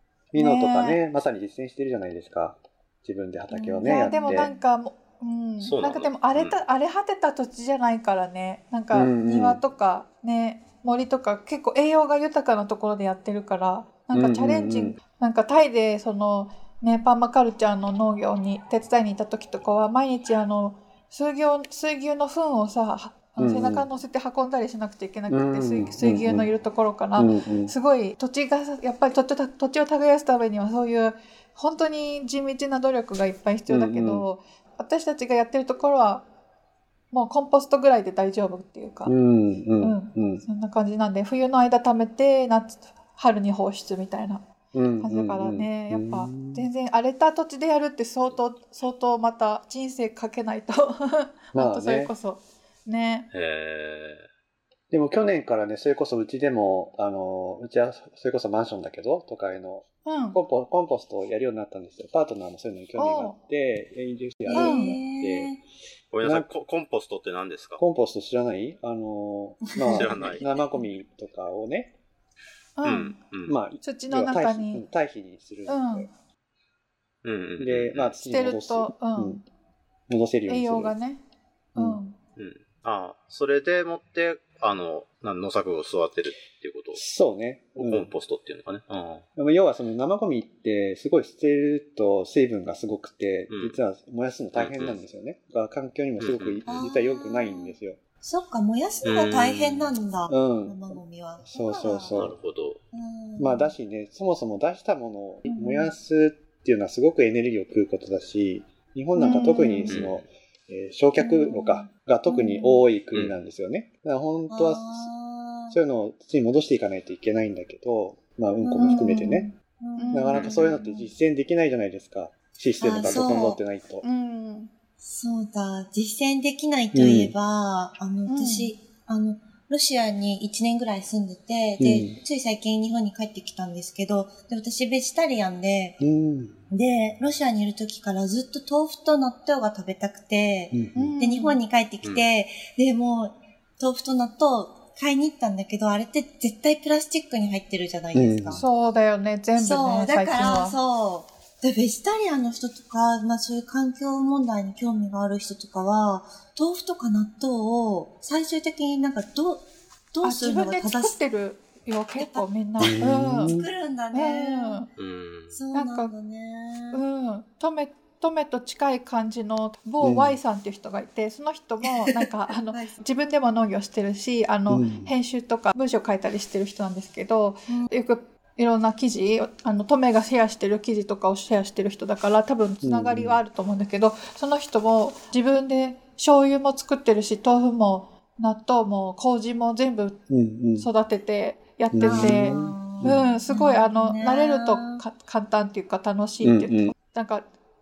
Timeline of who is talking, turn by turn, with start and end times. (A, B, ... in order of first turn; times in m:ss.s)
0:00.3-0:04.5 A
0:00.4-0:01.0 B
0:03.5-0:04.6 C
0:03.8-0:36.2 B
0:05.6-0:06.6 D
0:08.9-0:09.6 A
0:14.1-0:15.0 A
0:23.4-0:23.9 A
0:25.3-0:26.5 A
0:27.2-0:27.7 A
0:33.7-0:34.3 A
0:37.1-0:39.2 B
0:39.1-0:40.4 A
0:39.8-0:44.4 B
0:44.7-0:46.7 A
0:45.0-0:53.3 B
0:51.5-0:52.1 A
0:53.3-0:54.3 D
0:54.9-1:05.6 A
1:00.0-1:00.4 B
1:03.0-1:03.4 B
1:04.5-1:05.6 C
1:04.5-1:05.0 B
1:06.1-1:07.8 D
1:06.2-1:06.5 A
1:07.8-1:12.0 A
1:09.9-1:10.6 C
1:10.0-1:10.5 D
1:12.8-1:13.2 B
1:12.8-1:13.6 D
1:13.4-1:16.1 A
1:13.8-1:14.9 B
1:15.7-1:16.1 B
1:17.2-1:18.2 D
1:17.6-1:19.4 A
1:18.2-1:19.4 B
1:20.1-1:21.0 A
1:20.5-1:21.2 B
1:21.8-1:22.0 A
1:21.8-1:22.2 B
1:22.4-1:27.0 D
1:26.9-1:28.1 A
1:27.8-1:29.2 D
1:29.4-1:38.0 A
1:33.5-1:33.8 D
1:34.6-1:35.0 D
1:36.2-1:36.8 D
1:36.6-1:42.2 C
1:39.0-1:40.0 D
1:40.3-1:42.4 A
1:42.1-1:42.8 D
1:42.9-1:43.7 C
1:43.4-1:55.1 A
1:45.4-1:45.9 C
1:49.2-1:50.0 B
1:49.9-1:50.3 D
1:51.2-1:52.8 C
1:53.1-1:53.4 D
1:54.5-1:55.8 C
1:55.7-1:59.5 A
1:58.6-2:01.1 C
1:58.8-1:59.2 B
2:00.0-2:00.5 B
2:00.1-2:04.0 A
2:02.8-2:03.6 C
2:03.2-2:03.5 B
2:04.0-2:04.7 B
2:05.0-2:16.0 C
2:06.9-2:07.3 A
2:08.3-2:08.8 B
2:11.8-2:12.2 A
2:16.0-2:16.6 A
2:16.7-2:28.6 C
2:20.7-2:21.1 A
2:21.0-2:21.6 B
2:22.0-2:22.3 D
2:28.1-2:28.6 A
2:28.5-2:30.8 B
2:29.6-2:41.2 C
2:40.2-2:43.5 B
2:42.2-2:42.5 C
2:42.8-2:43.7 A
2:43.4-2:44.9 C
2:44.1-2:44.9 B
2:45.0-2:45.6 D
2:45.5-2:47.0 C
2:45.7-2:46.1 B
2:46.9-3:10.2 B
2:50.0-2:50.4 A
2:52.1-2:53.1 C
2:54.7-2:55.1 A
3:02.8-3:03.4 A
3:10.3-3:10.9 A
3:10.8-3:17.5 B
3:11.9-3:13.3 A
3:12.0-3:15.0 C
3:16.4-3:16.9 A